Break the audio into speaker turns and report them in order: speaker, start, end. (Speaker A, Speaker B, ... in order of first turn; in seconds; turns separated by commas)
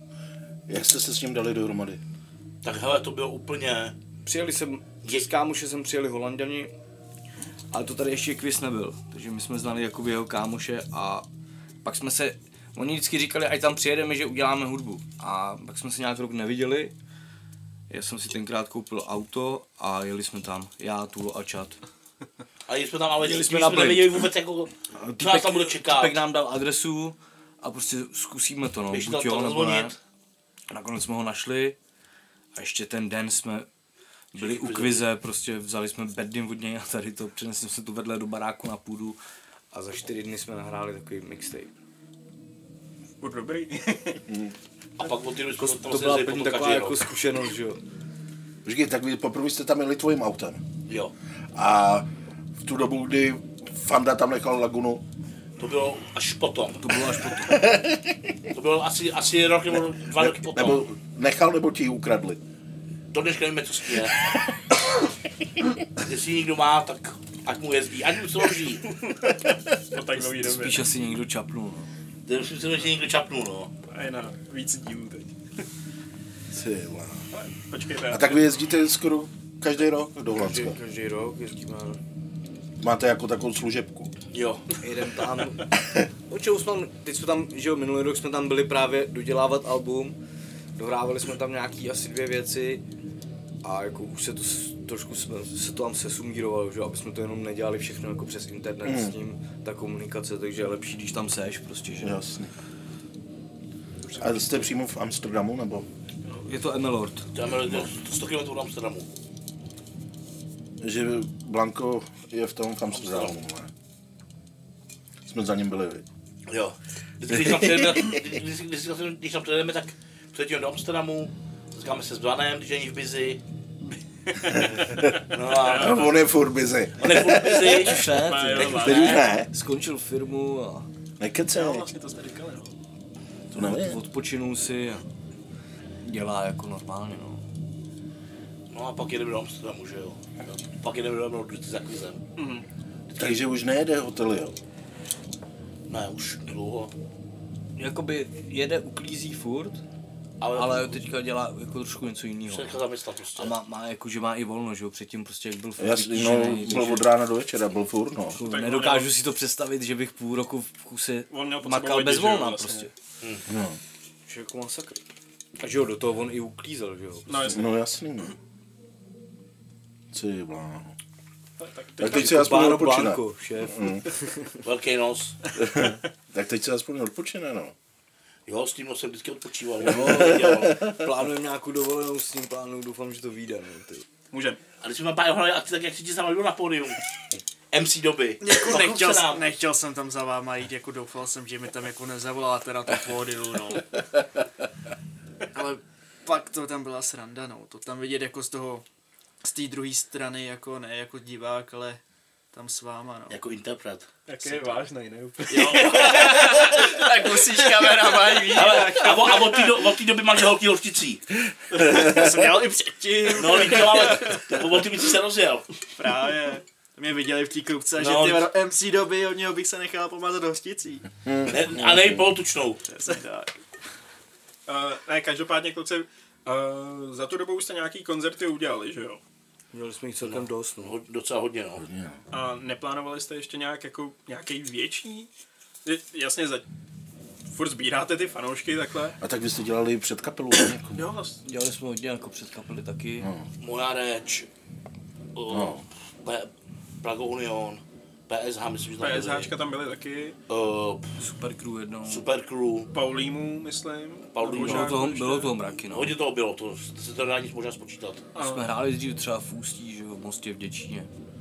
Speaker A: 0.7-2.0, Speaker B: 2.6-4.0, Speaker C: 4.2-6.7, Speaker C: 7.7-11.3, Speaker C: 11.8-16.9, Speaker C: 17.9-21.8, Speaker B: 22.7-26.2, Speaker C: 23.2-24.2, Speaker C: 24.9-29.9, Speaker B: 28.9-30.0, Speaker C: 30.7-31.8, Speaker C: 32.5-33.7, Speaker C: 34.3-39.2, Speaker B: 34.4-35.1, Speaker C: 39.7-41.7, Speaker D: 43.2-44.2, Speaker A: 44.3-44.5, Speaker B: 45.0-47.1, Speaker C: 45.6-47.8, Speaker A: 48.6-50.6, Speaker B: 50.9-51.1, Speaker A: 51.5-55.0, Speaker B: 55.6-57.1, Speaker C: 56.8-57.7, Speaker A: 57.4-58.0, Speaker B: 58.5-60.8, Speaker A: 60.1-62.4, Speaker B: 63.1-64.3, Speaker B: 66.0-69.0, Speaker D: 69.9-70.8, Speaker C: 70.1-71.9, Speaker B: 72.3-73.7, Speaker D: 73.9-75.3, Speaker A: 76.5-77.2, Speaker D: 77.3-78.4, Speaker A: 78.1-80.8, Speaker C: 80.3-82.0, Speaker A: 82.8-84.1, Speaker B: 84.3-84.8, Speaker C: 84.8-90.2, Speaker C: 90.8-92.8, Speaker C: 93.6-102.2, Speaker A: 98.8-99.2, Speaker A: 102.0-102.5, Speaker D: 104.1-104.5, Speaker A: 104.2-105.9, Speaker C: 106.4-107.3, Speaker B: 107.3-109.1, Speaker A: 110.8-113.7, Speaker B: 112.9-113.3, Speaker A: 115.2-116.1, Speaker B: 116.5-123.4, Speaker A: 117.3-118.3, Speaker D: 124.3-126.1, Speaker A: 124.5-128.1, Speaker B: 125.3-126.1, Speaker B: 127.0-128.1, Speaker C: 127.5-130.9, Speaker D: 128.2-129.2, Speaker A: 128.6-129.5, Speaker A: 131.2-131.9, Speaker D: 131.5-132.8, Speaker C: 133.5-135.1, Speaker A: 133.5-134.0, Speaker C: 136.0-137.4, Speaker B: 138.7-142.2, Speaker D: 142.4-142.7, Speaker B: 143.1-143.4, Speaker A: 143.2-144.6, Speaker B: 145.9-146.9, Speaker C: 147.8-149.8, Speaker B: 150.4-151.0, Speaker C: 150.5-152.8, Speaker B: 152.5-153.5, Speaker C: 153.4-157.1, Speaker A: 155.8-158.4, Speaker C: 158.3-162.9, Speaker D: 158.4-159.1, Speaker D: 161.3-162.9, Speaker B: 163.2-163.5, Speaker A: 163.5-163.8, Speaker C: 164.3-165.0, Speaker C: 165.6-167.6, Speaker D: 167.3-167.6, Speaker A: 167.5-168.4, Speaker A: 170.1-170.9, Speaker D: 171.6-172.4, Speaker A: 172.0-174.1, Speaker C: 172.0-174.6, Speaker B: 174.6-175.4, Speaker A: 175.6-177.7, Speaker B: 178.5-180.8, Speaker C: 179.8-184.1, Speaker A: 179.8-181.1, Speaker D: 184.3-184.6, Speaker B: 184.8-187.0, Speaker B: 187.7-189.5, Speaker E: 188.4-194.0, Speaker E: 195.5-198.8, Speaker E: 199.4-202.0, Speaker E: 202.5-203.4, Speaker B: 203.3-204.1, Speaker D: 204.3-206.9, Speaker E: 204.5-204.8, Speaker E: 205.5-209.7, Speaker B: 205.7-206.8, Speaker B: 208.3-211.2, Speaker E: 211.7-214.6, Speaker B: 213.3-215.7, Speaker D: 216.0-216.6, Speaker E: 216.0-216.4, Speaker E: 216.9-221.1, Speaker B: 218.0-218.5, Speaker A: 221.2-222.3, Speaker B: 221.5-222.8, Speaker E: 222.9-223.5, Speaker D: 224.7-229.2, Speaker C: 229.7-230.9, Speaker B: 230.2-231.8, Speaker A: 231.8-232.2, Speaker D: 232.3-235.3, Speaker D: 235.8-236.7, Speaker D: 237.5-239.2, Speaker A: 239.2-241.0, Speaker D: 240.9-241.4, Speaker C: 241.4-243.3, Speaker A: 243.2-243.5, Speaker B: 243.6-244.5, Speaker B: 245.4-246.5, Speaker A: 245.5-245.8, Speaker B: 247.0-249.5, Speaker D: 249.0-250.4, Speaker B: 250.5-251.1, Speaker C: 251.2-252.2, Speaker B: 252.1-252.9, Speaker D: 252.9-255.5, Speaker B: 254.3-255.0, Speaker C: 254.4-256.1, Speaker B: 255.9-258.3, Speaker D: 258.4-258.7, Speaker C: 258.4-261.1